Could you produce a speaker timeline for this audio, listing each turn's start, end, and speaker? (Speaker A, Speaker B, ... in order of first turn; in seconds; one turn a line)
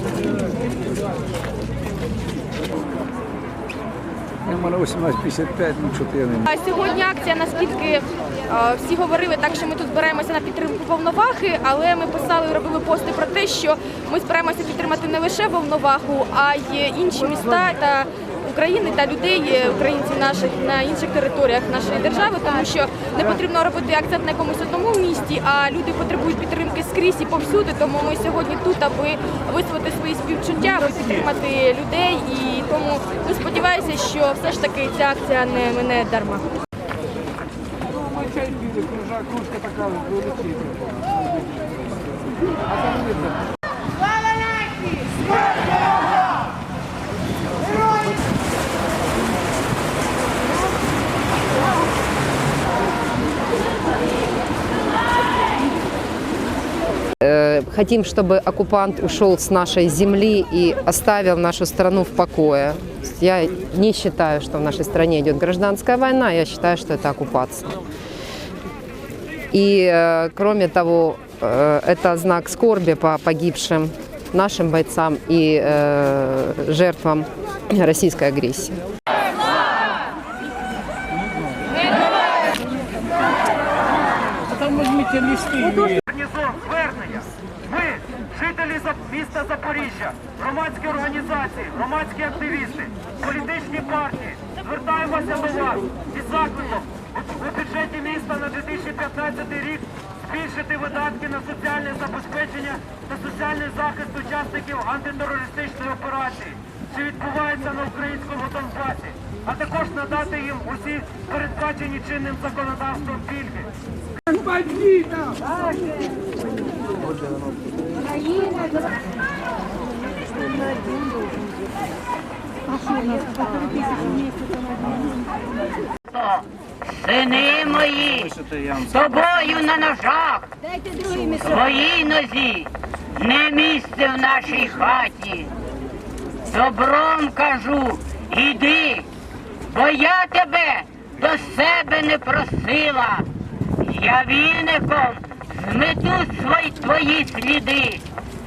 Speaker A: 4.5-6.4
Speaker B: 6.4-36.5
Speaker C: 38.7-40.0
Speaker D: 57.2-67.8
Speaker D: 69.5-78.8
Speaker C: 86.0-113.7
Speaker E: 126.1-130.5
Speaker E: 131.0-135.5
Speaker E: 136.5-139.1
Speaker E: 139.7-143.2
Speaker E: 143.8-148.0